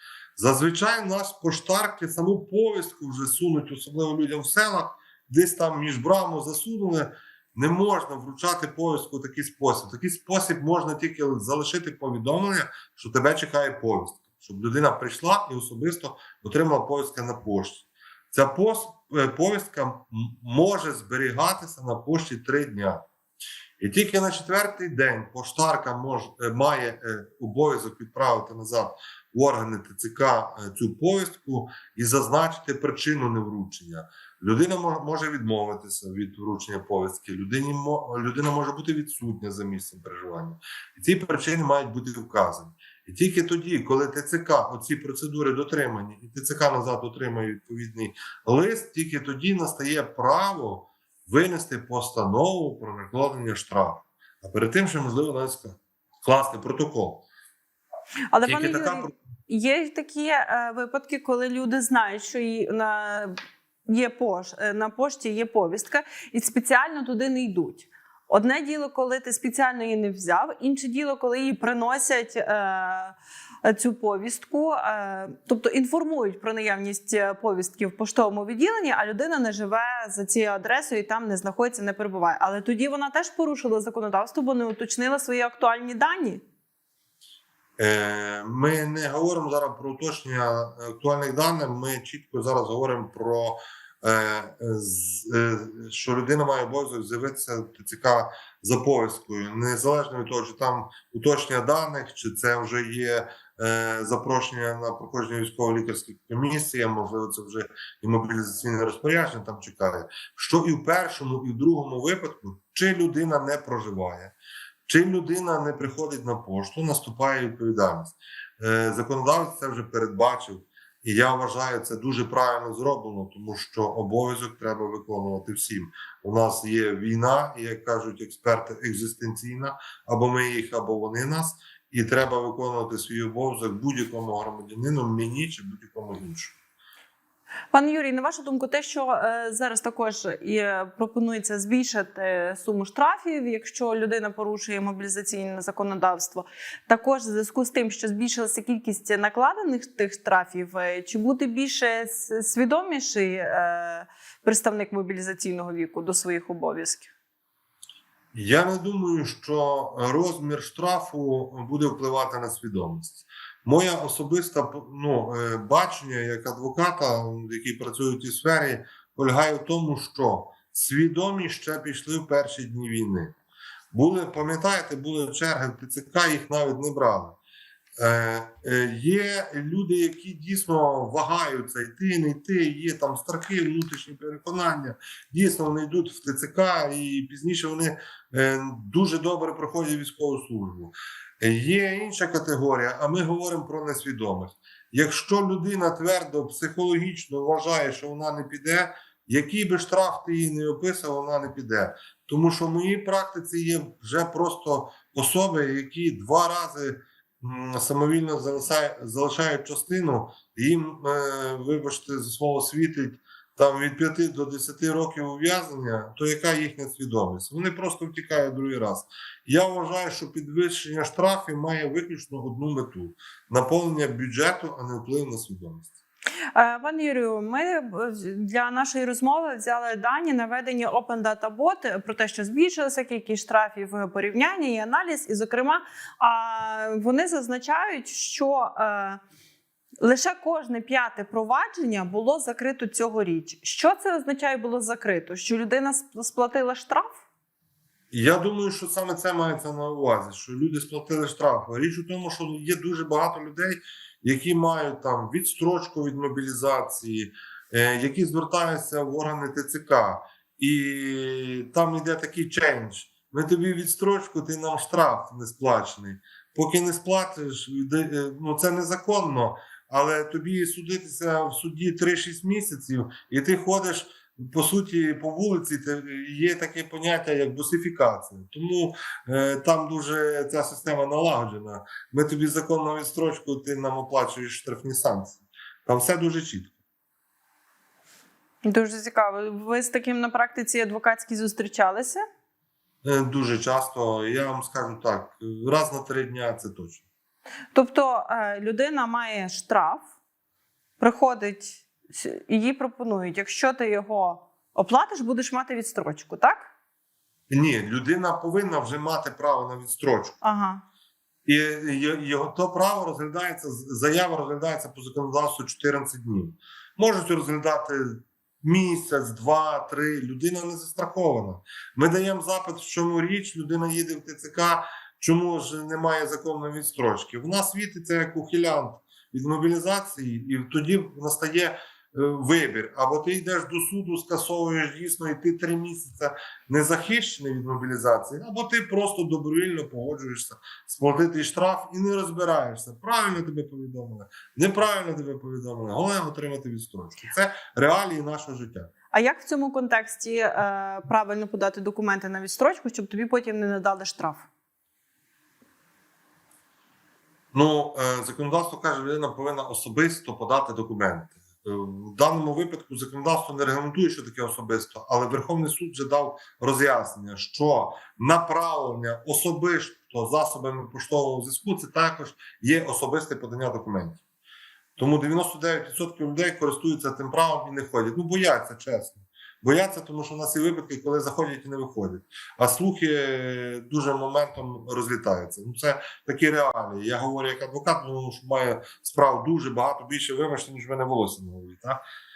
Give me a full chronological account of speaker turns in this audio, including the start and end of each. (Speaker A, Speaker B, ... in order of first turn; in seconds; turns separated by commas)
Speaker A: 0.4-23.1, Speaker A: 23.8-57.3, Speaker B: 58.3-63.4, Speaker A: 58.4-59.1, Speaker B: 63.9-73.1, Speaker B: 73.7-86.4, Speaker A: 87.8-114.3, Speaker A: 114.9-136.6, Speaker B: 137.7-157.1, Speaker A: 158.3-173.3, Speaker A: 173.9-177.4, Speaker A: 178.0-225.9, Speaker B: 226.6-239.2, Speaker B: 240.0-247.2, Speaker A: 248.1-286.8, Speaker B: 288.6-292.2, Speaker A: 293.0-297.0, Speaker B: 297.7-300.1, Speaker B: 301.0-306.7, Speaker A: 307.5-310.4, Speaker B: 310.4-310.8, Speaker A: 311.5-348.9, Speaker B: 349.1-354.5, Speaker A: 357.5-374.2, Speaker A: 375.0-392.0